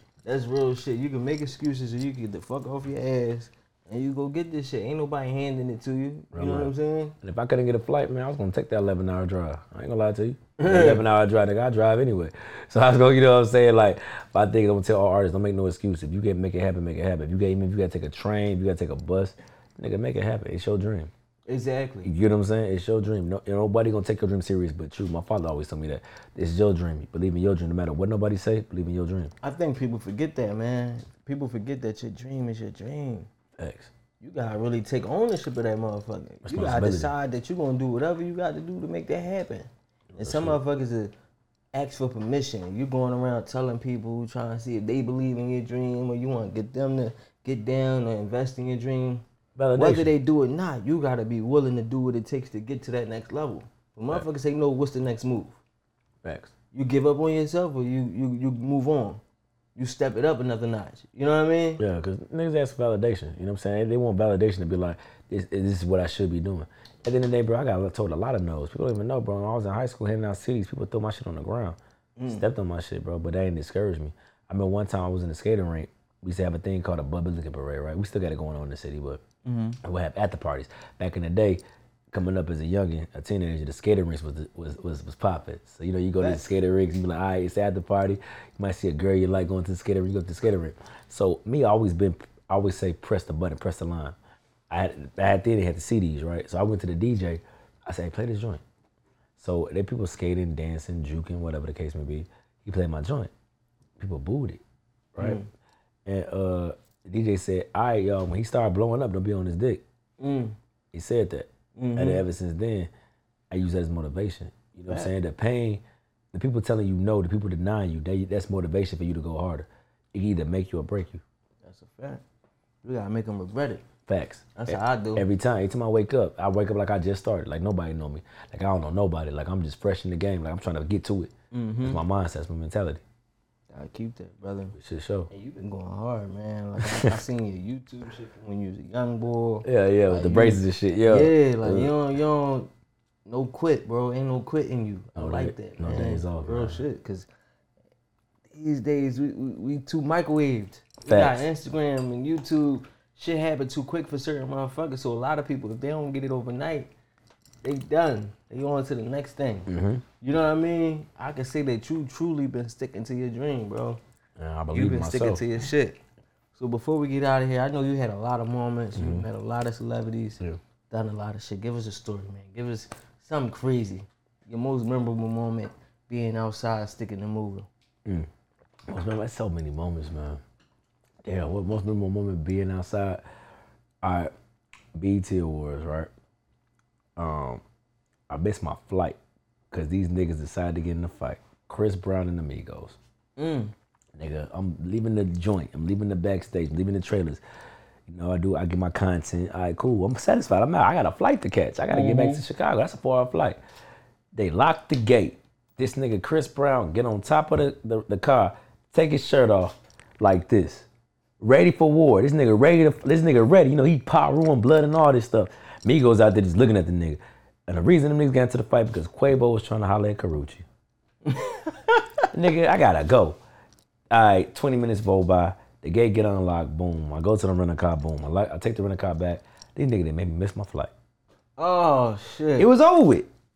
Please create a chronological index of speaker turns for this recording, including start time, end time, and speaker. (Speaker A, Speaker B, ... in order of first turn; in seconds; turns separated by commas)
Speaker A: 0.2-7.1, Speaker B: 6.3-21.1, Speaker A: 10.6-11.0, Speaker A: 21.5-22.1, Speaker B: 22.0-29.3, Speaker A: 29.4-33.3, Speaker B: 33.6-33.9, Speaker A: 34.2-41.1, Speaker B: 36.4-37.1, Speaker B: 40.1-40.6, Speaker A: 41.7-49.2, Speaker B: 49.5-50.1, Speaker A: 49.8-55.6, Speaker B: 56.2-56.5, Speaker A: 56.7-59.2, Speaker A: 59.8-61.8, Speaker B: 61.8-71.8, Speaker A: 72.2-72.5, Speaker B: 72.3-79.2, Speaker A: 79.4-79.8, Speaker B: 79.8-94.2, Speaker B: 94.7-98.6, Speaker B: 99.4-103.3, Speaker B: 104.0-104.6, Speaker A: 105.2-105.5, Speaker B: 106.0-109.8, Speaker A: 110.2-110.5, Speaker B: 110.9-112.9, Speaker A: 111.8-112.2, Speaker B: 113.5-115.8, Speaker B: 116.3-121.2, Speaker A: 121.6-122.2, Speaker A: 122.8-123.8, Speaker B: 124.1-131.3, Speaker A: 124.5-125.2, Speaker A: 131.5-132.0, Speaker B: 131.8-133.0, Speaker A: 133.7-134.8, Speaker B: 134.7-135.3, Speaker A: 135.3-142.7, Speaker B: 136.8-137.1, Speaker B: 139.6-141.9, Speaker A: 143.2-147.3, Speaker B: 145.2-146.8, Speaker A: 148.5-156.9, Speaker B: 151.1-151.4, Speaker A: 157.6-159.7, Speaker B: 159.7-160.0, Speaker A: 160.2-164.0, Speaker B: 164.4-165.4, Speaker A: 164.7-166.0, Speaker A: 166.5-177.7, Speaker B: 168.9-169.2, Speaker B: 178.9-180.4, Speaker B: 181.2-183.2, Speaker B: 184.0-184.3, Speaker B: 184.9-186.1, Speaker B: 187.2-187.6, Speaker B: 188.3-189.2, Speaker B: 189.7-193.0, Speaker A: 193.4-193.7, Speaker B: 194.1-197.4, Speaker B: 198.1-203.6, Speaker A: 201.9-202.4, Speaker B: 204.3-210.9, Speaker B: 211.4-220.6, Speaker A: 221.2-222.3, Speaker B: 222.3-223.4, Speaker B: 224.1-230.9, Speaker A: 231.6-232.7, Speaker B: 232.6-233.3